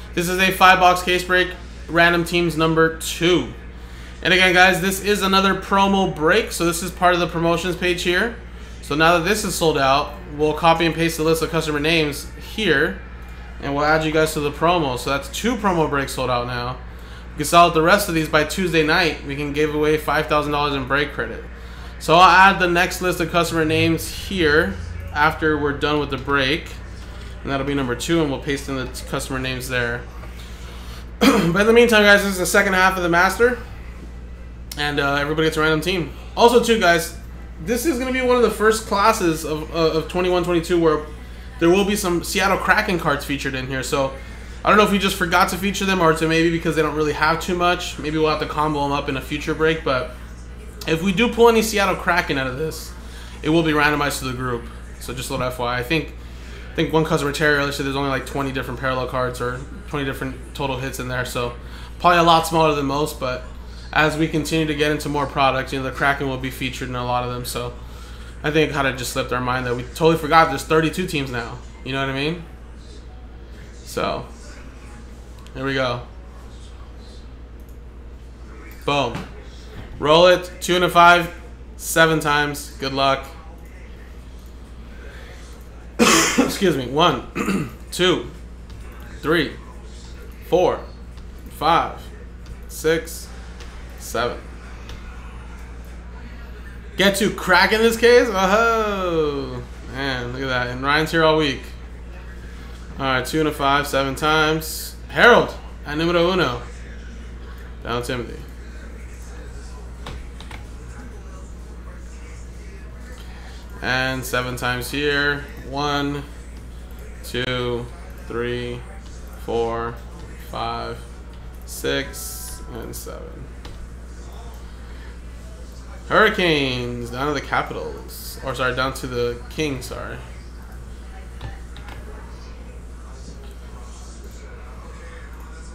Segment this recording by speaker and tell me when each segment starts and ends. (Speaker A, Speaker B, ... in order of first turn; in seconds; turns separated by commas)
Speaker A: 0.1-3.6, Speaker A: 4.2-13.0, Speaker A: 13.6-16.8, Speaker A: 17.4-21.5, Speaker A: 22.0-26.8, Speaker A: 27.4-30.1, Speaker A: 31.2-33.6, Speaker A: 34.8-41.1, Speaker A: 41.6-50.1, Speaker A: 50.9-56.1, Speaker A: 56.8-67.8, Speaker A: 68.4-72.5, Speaker A: 73.8-74.3, Speaker A: 75.5-76.0, Speaker A: 78.8-79.2, Speaker A: 80.0-83.3, Speaker A: 86.0-88.3, Speaker A: 89.2-89.6, Speaker A: 90.5-90.8, Speaker A: 91.5-92.1, Speaker A: 92.7-93.3, Speaker A: 94.0-94.5, Speaker A: 97.0-101.7, Speaker A: 103.0-106.6, Speaker A: 107.8-108.5, Speaker A: 113.8-116.3, Speaker A: 117.2-118.8, Speaker A: 119.4-121.0, Speaker A: 121.7-123.5, Speaker A: 126.1-130.2